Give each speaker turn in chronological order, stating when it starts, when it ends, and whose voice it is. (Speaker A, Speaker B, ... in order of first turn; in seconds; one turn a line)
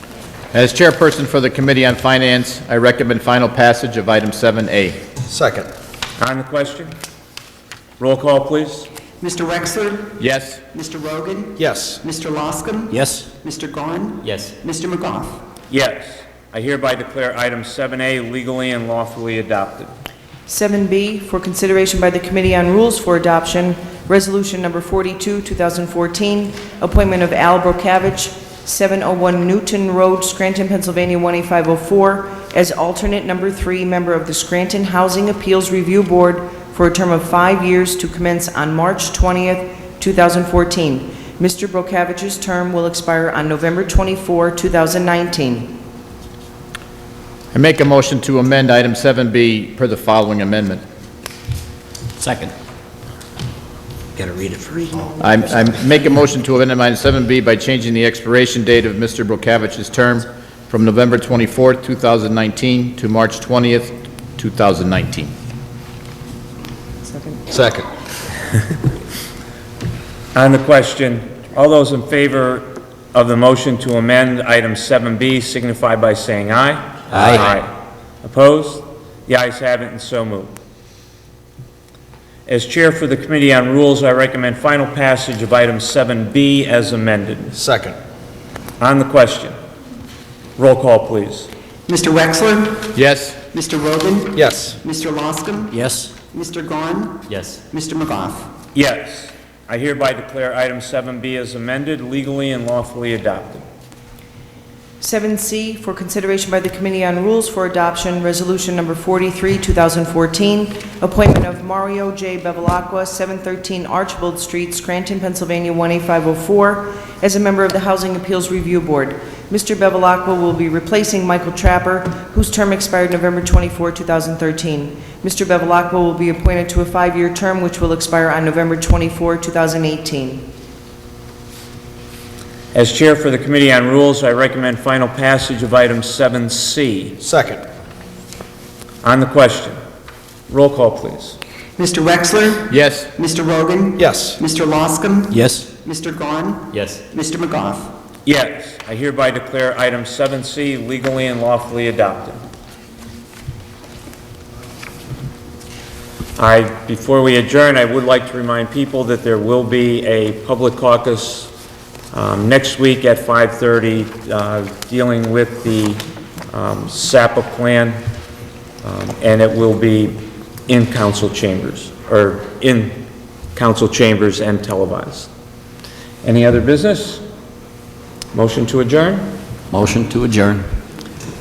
Speaker A: 0.5-5.0
Speaker B: 5.3-5.7
Speaker C: 6.2-6.9
Speaker C: 8.0-8.9
Speaker D: 9.2-10.2
Speaker A: 10.2-10.6
Speaker D: 10.7-15.4
Speaker B: 11.6-12.0
Speaker E: 12.9-13.3
Speaker C: 15.7-19.9
Speaker F: 20.5-45.8
Speaker A: 47.5-50.8
Speaker E: 52.2-52.5
Speaker E: 54.2-55.2
Speaker A: 55.2-65.3
Speaker F: 67.0-67.4
Speaker B: 67.5-67.9
Speaker C: 70.3-77.7
Speaker E: 77.1-77.4
Speaker C: 78.2-80.5
Speaker C: 82.5-87.6
Speaker B: 87.5-88.0
Speaker C: 88.8-89.5
Speaker C: 90.6-91.5
Speaker D: 91.9-92.9
Speaker A: 92.9-93.4
Speaker D: 93.5-95.8
Speaker B: 94.3-94.8
Speaker E: 95.7-96.1
Speaker D: 96.3-98.5
Speaker C: 98.7-103.6
Speaker F: 105.0-130.5
Speaker C: 132.7-137.2
Speaker B: 137.2-137.6
Speaker C: 139.0-139.8
Speaker C: 140.5-141.4
Speaker D: 141.8-147.9
Speaker A: 142.7-143.1
Speaker B: 144.0-144.4
Speaker E: 145.3-145.7
Speaker C: 148.2-152.4
Speaker C: 156.4-161.5
Speaker C: 162.1-168.0
Speaker C: 168.8-175.3
Speaker C: 176.2-177.2
Speaker C: 178.3-179.4
Speaker E: 179.7-180.7